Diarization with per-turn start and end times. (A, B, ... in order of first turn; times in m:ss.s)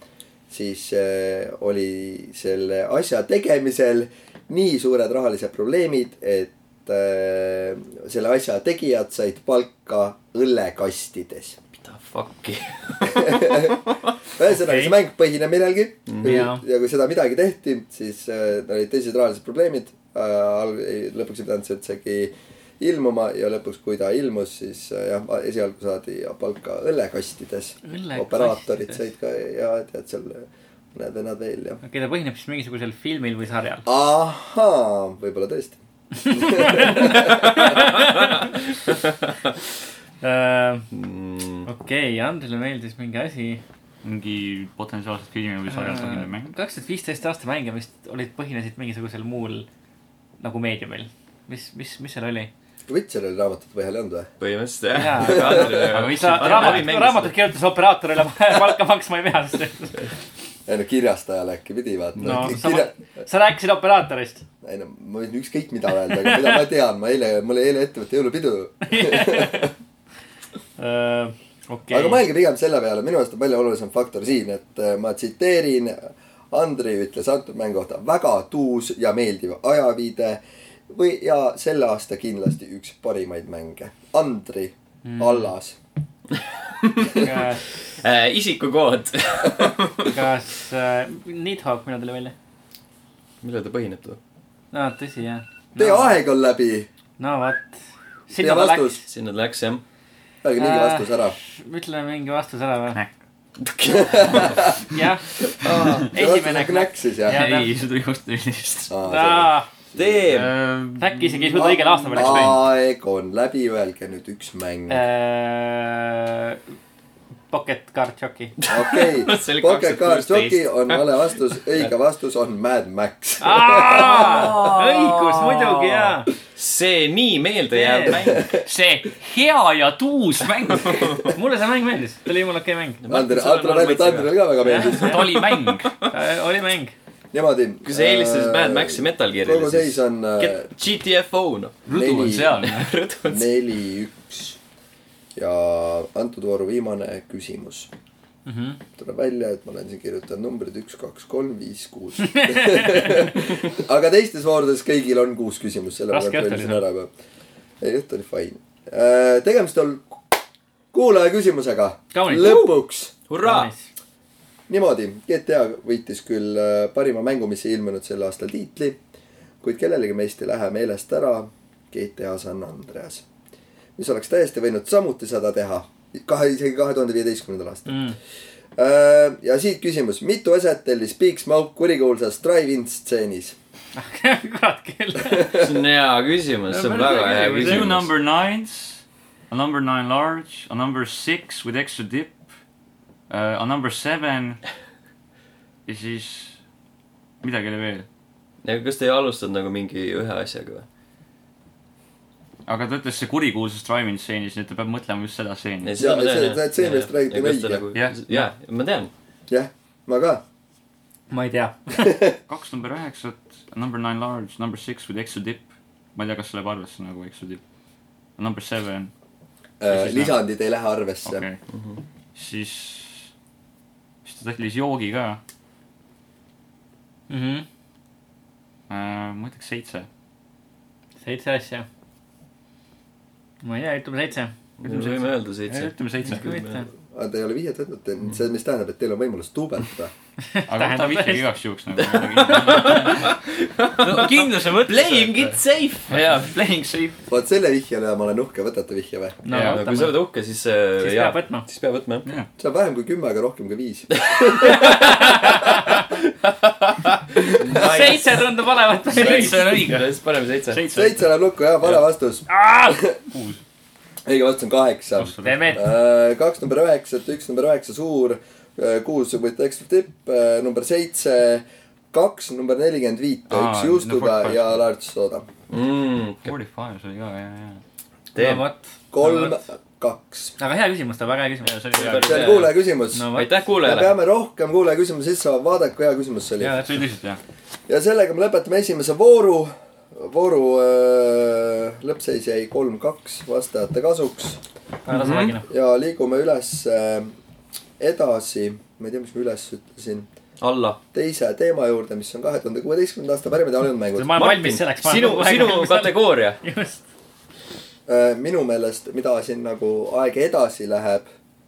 0:00.5-0:11.6 A
0:11.8-0:13.8 B
0:13.0-0:13.8 A
0:14.4-0:31.8 A
0:14.4-0:15.0 C
0:16.1-0:16.5 B
0:16.2-0:16.6 C
0:27.8-0:29.0 C
0:31.8-0:33.8 C
0:33.9-0:37.7 A
0:36.2-0:38.5 C
0:40.2-0:40.9 C
0:40.9-0:41.7 B
0:41.6-0:43.6 C
0:44.0-0:46.5 D
0:45.7-0:49.7 C
0:50.4-0:52.5 C
0:52.9-0:54.3 A
0:54.4-0:57.3 B
0:54.9-1:00.0 C
0:55.2-0:55.9 A
0:55.9-0:57.0 D
1:00.7-1:02.9 A
1:02.2-1:04.4 C
1:04.6-1:09.7 A
1:08.9-1:09.7 C
1:10.8-1:12.2 C
1:11.9-1:25.8 A
1:25.0-1:25.5 C
1:26.8-1:27.3 B
1:27.1-1:27.8 C
1:28.0-1:30.2 B
1:30.0-1:32.3 C
1:33.4-1:34.2 B
1:34.7-1:36.2 C
1:35.8-1:36.9 A
1:37.2-1:39.0 C
1:38.4-1:39.0 A
1:39.1-1:39.8 B
1:40.4-1:41.4 A
1:40.6-1:43.0 C
1:43.6-1:44.6 B
1:43.8-1:44.8 A
1:44.9-1:45.2 C
1:45.5-1:47.4 A
1:46.1-1:47.7 C
1:47.3-1:48.9 D
1:48.9-1:50.2 A
1:49.1-1:49.7 C
1:49.9-1:50.5 B
1:50.2-1:52.6 D
1:51.0-1:52.6 C
1:51.5-1:55.0 A
1:54.9-1:56.6 C
1:57.5-1:58.5 C
1:58.6-2:01.1 B
1:58.7-2:04.6 A
2:03.4-2:06.3 C
2:03.9-2:08.5 B
2:07.7-2:08.3 C
2:08.1-2:08.6 A
2:08.6-2:11.3 D
2:11.3-2:13.0 C
2:13.0-2:16.0 B
2:13.1-2:15.2 A
2:14.6-2:15.2 C
2:14.9-2:16.0 D
2:16.1-2:16.9 C
2:17.3-2:20.7 A
2:17.9-2:21.8 B
2:21.9-2:23.0 D
2:21.9-2:22.6 A
2:22.5-2:23.5 B
2:23.3-2:24.6 A
2:25.4-2:27.9 A
2:28.4-2:28.8 C
2:29.0-2:37.1 A
2:32.2-2:33.3 C
2:36.1-2:36.8 C
2:37.8-2:40.4 A
2:40.9-2:43.1 A
2:42.1-2:42.7 C
2:43.3-2:43.7 B
2:43.4-2:43.9 C
2:44.7-2:49.0 A
2:49.6-2:53.2 A
2:54.0-2:58.0 A
2:57.9-2:58.2 C
2:58.8-3:03.6 A
3:04.0-3:05.6 C
3:05.2-3:05.7 A
3:05.5-3:08.1 B
3:06.7-3:07.9 C
3:07.6-3:12.4 D
3:13.3-3:14.6 D
3:15.9-3:16.6 D
3:17.4-3:18.1 D
3:18.6-3:20.9 B
3:22.6-3:26.2 D
3:25.8-3:29.1 B
3:26.0-3:27.8 A
3:27.9-3:28.5 D
3:29.5-3:30.4 A
3:31.3-3:32.3 C
3:32.0-3:32.4 A
3:32.5-3:37.6 D
3:38.4-3:39.1 D
3:39.8-3:41.4 A
3:39.9-3:40.4 D
3:41.2-3:41.6 D
3:41.7-3:42.0 B
3:42.4-3:43.3 D
3:44.2-3:45.4 D
3:47.3-3:47.6 C
3:48.9-3:50.1 D
3:51.2-3:51.9 C
3:53.6-3:54.5 C
3:54.8-3:56.8 B
3:54.8-3:56.6 D
3:56.3-3:56.9 C
3:57.1-4:00.1 A
4:00.5-4:01.4 C
4:00.7-4:03.4 D
4:02.0-4:06.4 B
4:04.0-4:05.6 D
4:06.1-4:07.2 D
4:07.3-4:09.4 A
4:09.4-4:10.2 C
4:09.5-4:09.9 D
4:09.7-4:12.3 B
4:11.0-4:11.6 C
4:12.6-4:15.2 A
4:14.2-4:15.7 B
4:14.6-4:16.0 C
4:17.0-4:18.4 B
4:17.7-4:20.0 C
4:19.1-4:20.8 B
4:19.1-4:20.1 D
4:20.7-4:21.3 D
4:20.9-4:23.2 A
4:22.5-4:23.0 C
4:23.3-4:23.6 D
4:24.2-4:35.5 A
4:25.2-4:25.8 D
4:25.4-4:25.8 C
4:33.5-4:34.9 D
4:35.7-4:36.5 B
4:36.4-4:37.8 D
4:38.4-4:38.7 B
4:38.4-4:39.6 C
4:39.1-4:40.6 A
4:40.6-4:41.8 C
4:41.6-4:42.7 D
4:41.9-4:42.8 B
4:42.1-4:43.3 A
4:43.1-4:43.5 C
4:43.3-4:44.1 B
4:43.8-4:46.8 A
4:46.6-4:46.9 C
4:46.7-4:47.4 D
4:47.9-4:54.6 A
4:55.0-4:55.7 C
4:55.1-4:55.6 B
4:55.7-4:57.4 A
4:58.0-5:00.3 A
5:00.6-5:01.0 B
5:01.1-5:04.4 A
5:04.2-5:07.0 C
5:04.3-5:06.6 B
5:08.1-5:11.3 A